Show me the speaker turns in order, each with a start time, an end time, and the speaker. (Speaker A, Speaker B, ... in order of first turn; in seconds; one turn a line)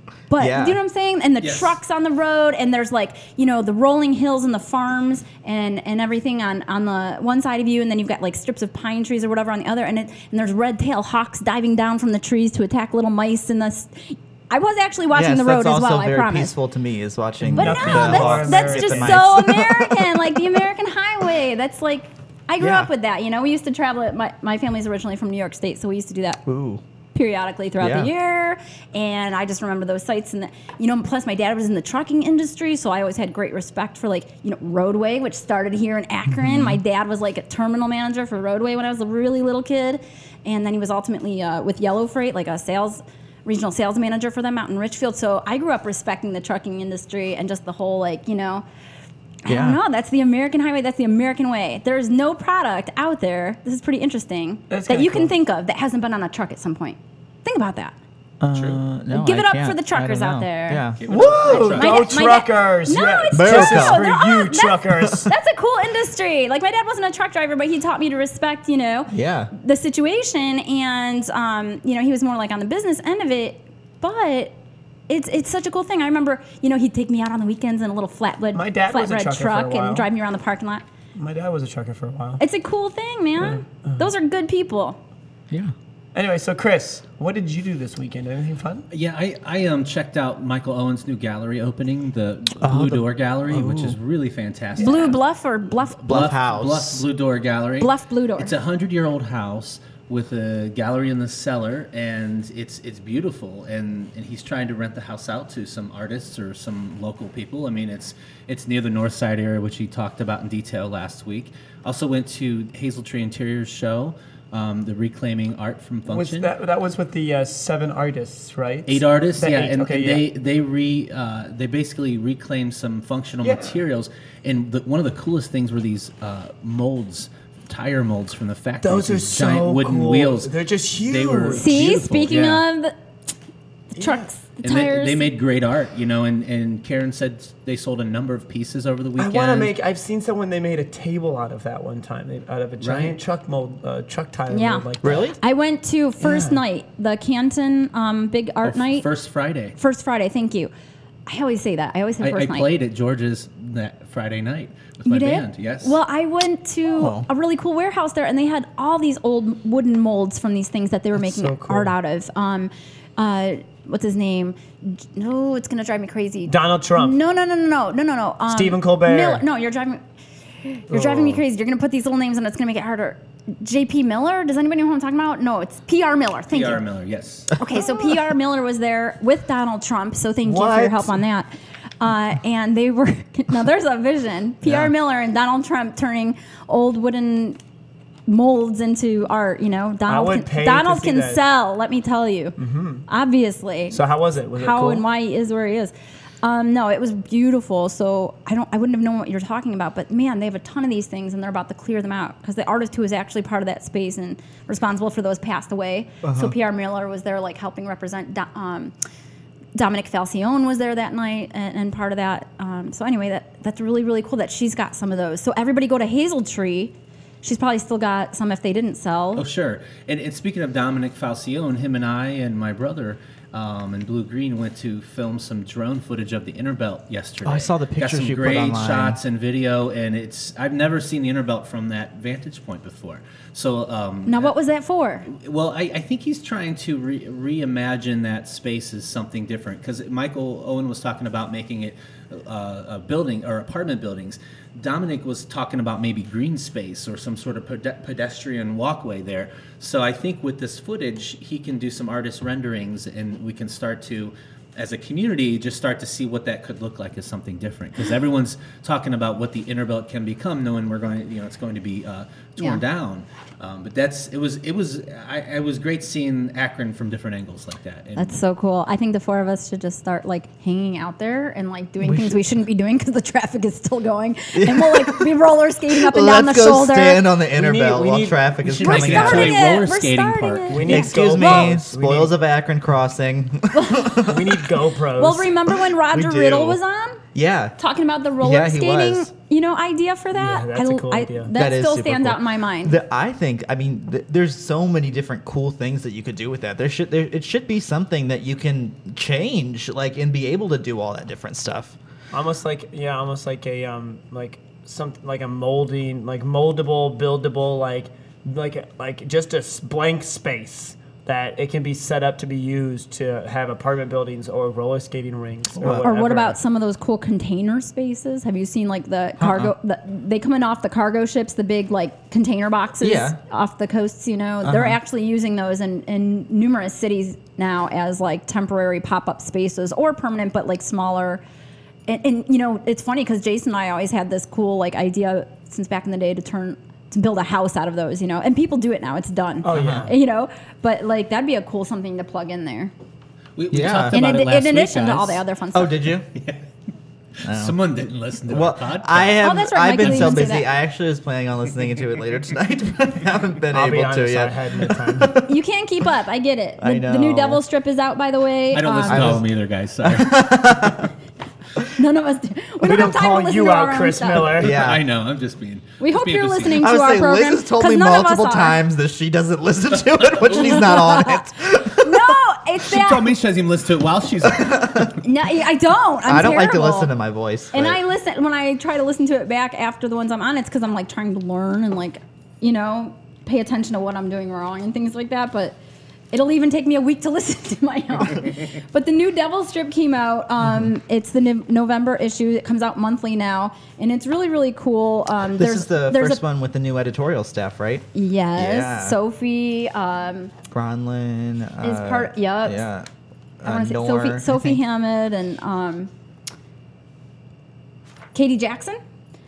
Speaker A: 0.3-16.5
Speaker B: 0.4-0.8
Speaker C: 1.4-1.8
Speaker B: 15.1-20.3
Speaker D: 17.4-19.3
Speaker A: 17.5-26.4
Speaker B: 22.6-22.9
Speaker B: 26.5-26.8
Speaker A: 27.1-48.6
Speaker B: 27.8-28.1
Speaker B: 36.3-36.8
Speaker A: 49.5-58.0
Speaker B: 49.5-49.8
Speaker D: 54.7-55.3
Speaker B: 58.4-61.8
Speaker D: 58.4-58.7
Speaker A: 59.1-60.9
Speaker C: 61.0-62.1
Speaker D: 61.1-65.3
Speaker A: 61.5-74.5
Speaker B: 63.3-64.1
Speaker B: 69.1-69.5
Speaker A: 75.1-80.8
Speaker D: 78.5-80.1
Speaker D: 81.2-82.4
Speaker A: 82.4-85.0
Speaker D: 83.4-84.1
Speaker D: 86.2-88.9
Speaker C: 88.9-95.2
Speaker B: 92.6-94.0
Speaker A: 94.8-96.1
Speaker B: 96.0-97.0
Speaker C: 96.0-116.5
Speaker A: 97.8-98.5
Speaker D: 116.1-120.3
Speaker C: 118.9-132.6
Speaker D: 123.4-123.8
Speaker D: 128.8-131.7
Speaker A: 131.5-133.0
Speaker A: 133.9-135.3
Speaker D: 134.0-134.3
Speaker C: 134.6-139.7
Speaker D: 139.2-145.3
Speaker C: 142.8-143.2
Speaker A: 144.5-149.1
Speaker B: 145.0-145.4
Speaker D: 146.2-146.6
Speaker C: 148.6-149.8
Speaker A: 149.8-150.7
Speaker A: 151.3-152.7
Speaker C: 152.2-156.0
Speaker A: 155.1-170.0
Speaker B: 156.9-157.3
Speaker D: 161.2-161.9
Speaker D: 166.5-167.2
Speaker D: 168.5-169.4
Speaker A: 170.6-176.8
Speaker C: 176.5-177.5
Speaker A: 177.6-181.5
Speaker D: 180.4-181.2
Speaker A: 182.0-187.6
Speaker A: 188.3-192.6
Speaker D: 190.1-191.4
Speaker D: 192.6-193.1
Speaker A: 193.1-194.0
Speaker D: 193.9-195.1
Speaker A: 194.5-208.9
Speaker B: 206.2-206.6
Speaker A: 209.8-219.5
Speaker C: 219.4-234.5
Speaker B: 227.4-229.2
Speaker A: 234.3-235.3
Speaker C: 235.3-268.4
Speaker A: 268.2-277.3
Speaker B: 272.0-272.4
Speaker B: 274.5-275.3
Speaker B: 275.9-279.8
Speaker D: 277.5-278.4
Speaker C: 278.6-280.8
Speaker A: 278.8-281.7
Speaker D: 280.7-282.4
Speaker B: 280.8-284.6
Speaker A: 283.7-284.3
Speaker D: 284.2-285.6
Speaker A: 285.1-287.2
Speaker D: 286.1-286.8
Speaker B: 286.2-286.6
Speaker B: 287.4-287.8
Speaker A: 287.8-293.0
Speaker B: 288.4-289.3
Speaker D: 290.3-291.5
Speaker B: 291.5-302.0
Speaker D: 302.3-316.6
Speaker B: 315.8-316.1
Speaker A: 316.0-331.4
Speaker B: 319.4-319.7
Speaker B: 323.0-323.4
Speaker B: 324.6-325.0
Speaker A: 332.1-342.9
Speaker D: 339.6-340.2
Speaker B: 339.7-340.1
Speaker C: 343.6-345.4
Speaker B: 343.7-344.2
Speaker A: 344.1-346.1
Speaker B: 345.7-346.3
Speaker C: 346.4-346.6
Speaker C: 347.4-349.4
Speaker B: 347.4-347.8
Speaker B: 348.5-355.5
Speaker A: 349.4-350.7
Speaker D: 353.7-355.4
Speaker A: 355.4-359.4
Speaker B: 356.8-357.6
Speaker C: 358.7-360.5
Speaker B: 359.1-359.5
Speaker B: 360.0-361.1
Speaker A: 361.9-364.6
Speaker D: 362.8-364.8
Speaker B: 364.6-365.1
Speaker C: 364.6-366.9
Speaker A: 366.0-368.8
Speaker B: 366.8-372.4
Speaker C: 370.2-371.0
Speaker A: 370.5-373.3
Speaker C: 372.8-375.2
Speaker B: 374.6-375.1
Speaker A: 375.1-377.1
Speaker B: 376.3-378.0
Speaker A: 377.7-385.8
Speaker A: 386.3-396.4
Speaker B: 395.5-399.2
Speaker A: 398.1-400.5
Speaker B: 400.7-403.1
Speaker A: 401.8-402.9
Speaker B: 403.6-404.8
Speaker A: 403.6-406.1
Speaker A: 408.3-409.0